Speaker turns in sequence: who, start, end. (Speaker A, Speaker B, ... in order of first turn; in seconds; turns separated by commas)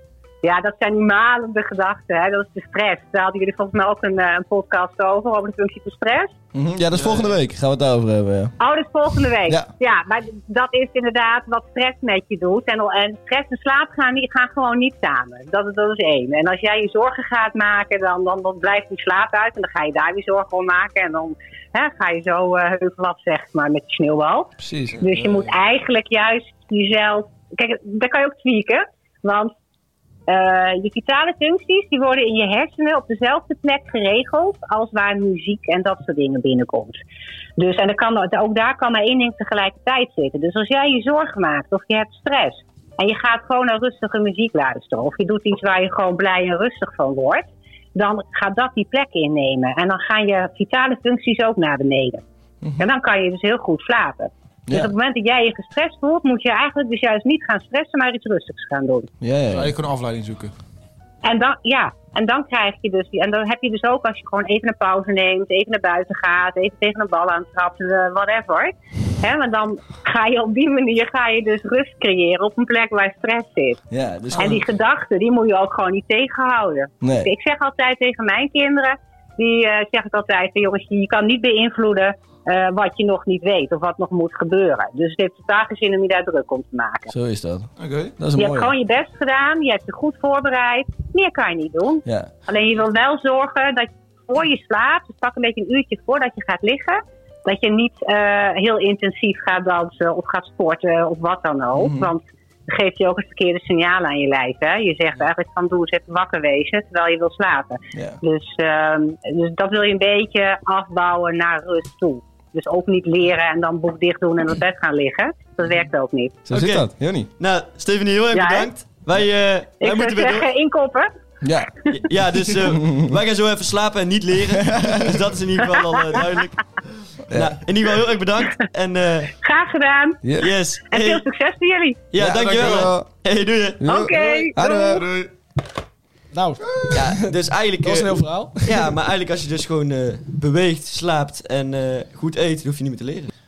Speaker A: 0.4-6.3, Speaker B: 6.5-8.5, Speaker C: 6.9-7.3, Speaker A: 8.6-29.5, Speaker B: 24.6-25.0, Speaker A: 30.3-37.0, Speaker A: 37.6-52.2, Speaker A: 52.8-59.1, Speaker B: 54.7-54.9, Speaker B: 59.2-59.7, Speaker C: 59.5-60.5, Speaker A: 61.2-73.8, Speaker B: 73.9-74.7, Speaker A: 74.3-87.1, Speaker B: 77.0-77.3, Speaker B: 87.1-88.7, Speaker C: 87.8-88.1, Speaker A: 88.3-116.4, Speaker B: 92.0-92.3, Speaker B: 101.7-102.1, Speaker B: 107.9-108.2, Speaker B: 116.5-117.3, Speaker D: 116.5-120.5, Speaker A: 118.3-118.7, Speaker A: 119.8-121.1, Speaker B: 121.4-121.7, Speaker D: 121.9-126.5, Speaker B: 122.6-123.1, Speaker B: 124.6-125.2, Speaker B: 127.3-127.6, Speaker D: 127.3-129.3, Speaker A: 129.3-130.2, Speaker B: 130.2-130.5, Speaker D: 130.4-131.2, Speaker A: 130.9-132.0, Speaker D: 132.1-134.0, Speaker B: 132.2-133.1, Speaker C: 132.2-132.9, Speaker B: 133.8-135.1, Speaker A: 133.8-135.0, Speaker E: 134.2-134.5, Speaker C: 134.6-135.3, Speaker E: 136.3-138.9, Speaker D: 136.9-143.3